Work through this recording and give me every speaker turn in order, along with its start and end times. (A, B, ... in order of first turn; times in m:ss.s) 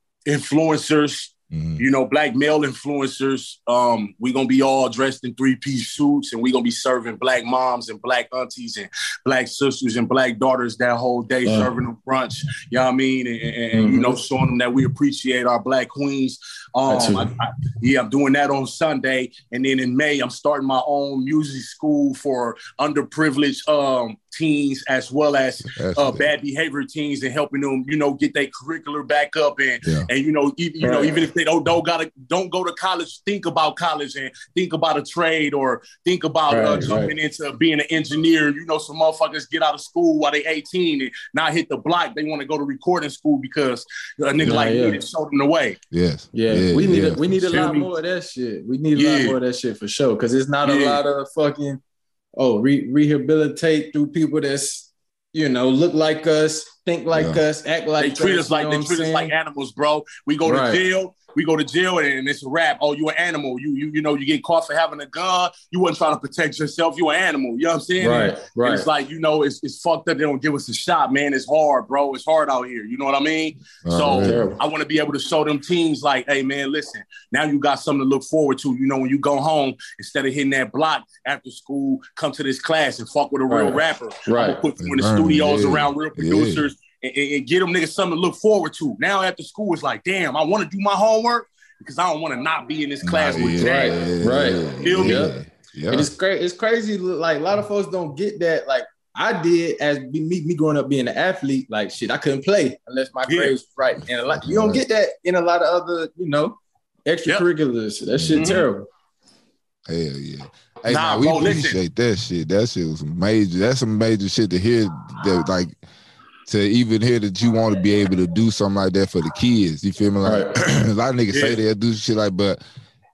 0:00.3-0:45.8 A
0:01.5-0:01.8 B
0:11.5-0:11.7 C
0:13.7-0:14.2 C
0:16.9-0:17.3 C
0:25.7-0:26.3 B
0:29.8-0:30.1 B
0:30.8-0:31.3 C
0:36.5-0:37.1 C
0:44.4-0:45.0 C
0:45.9-0:47.7 B
0:46.3-0:51.8 C
0:47.5-0:47.9 A
0:49.0-0:49.4 A
0:50.6-0:51.0 A
0:52.4-0:59.3 C
0:57.1-0:57.4 B
0:58.0-1:34.0 A
1:00.4-1:00.8 C
1:08.0-1:08.8 C
1:13.8-1:14.5 B
1:14.2-1:14.6 C
1:23.5-1:24.6 C
1:24.8-1:26.6 B
1:33.0-1:36.1 B
1:33.6-1:35.3 C
1:34.8-1:35.3 A
1:35.9-1:48.9 C
1:43.3-1:43.5 A
1:44.3-1:44.8 B
1:48.1-1:48.6 B
1:48.4-1:48.7 A
1:49.9-1:55.8 B
1:50.9-1:51.8 A
1:56.5-2:02.6 B
2:00.2-2:00.5 C
2:01.3-2:01.6 A